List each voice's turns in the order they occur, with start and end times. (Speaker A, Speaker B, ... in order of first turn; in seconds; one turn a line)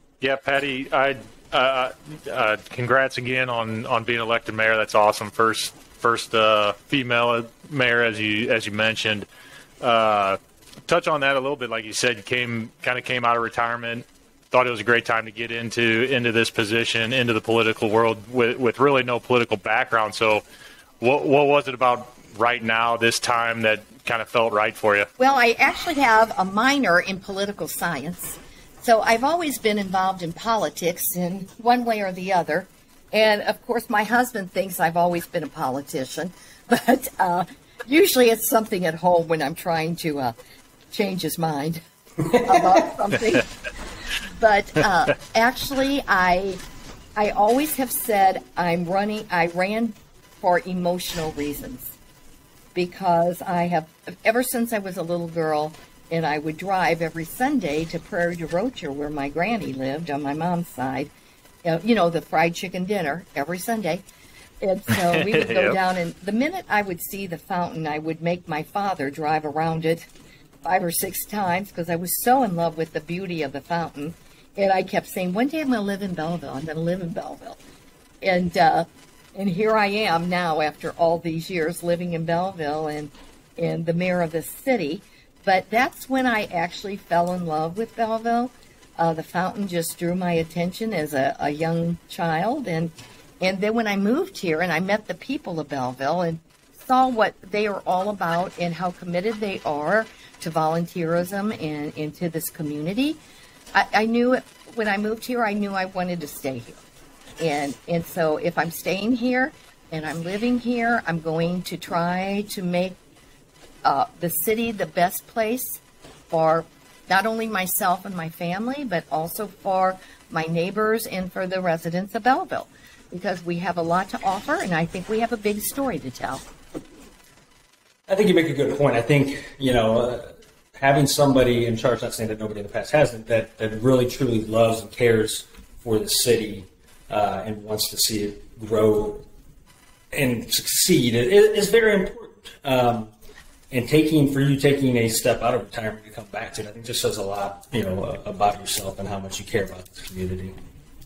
Speaker A: 0.2-9.3
Speaker A: 9.8-20.4
Speaker A: 21.0-25.1
Speaker B: 25.2-40.4
Speaker B: 40.9-41.8
Speaker C: 42.2-42.8
Speaker B: 42.4-43.5
Speaker B: 44.2-46.6
Speaker B: 47.2-51.9
Speaker B: 52.7-61.1
Speaker B: 61.6-64.0
Speaker B: 64.6-70.1
Speaker A: 65.2-65.8
Speaker B: 70.6-77.6
Speaker B: 78.2-103.2
Speaker B: 103.7-106.8
Speaker B: 107.4-113.0
Speaker B: 113.8-126.4
Speaker C: 128.1-139.3
Speaker C: 140.1-143.1
Speaker C: 143.7-150.6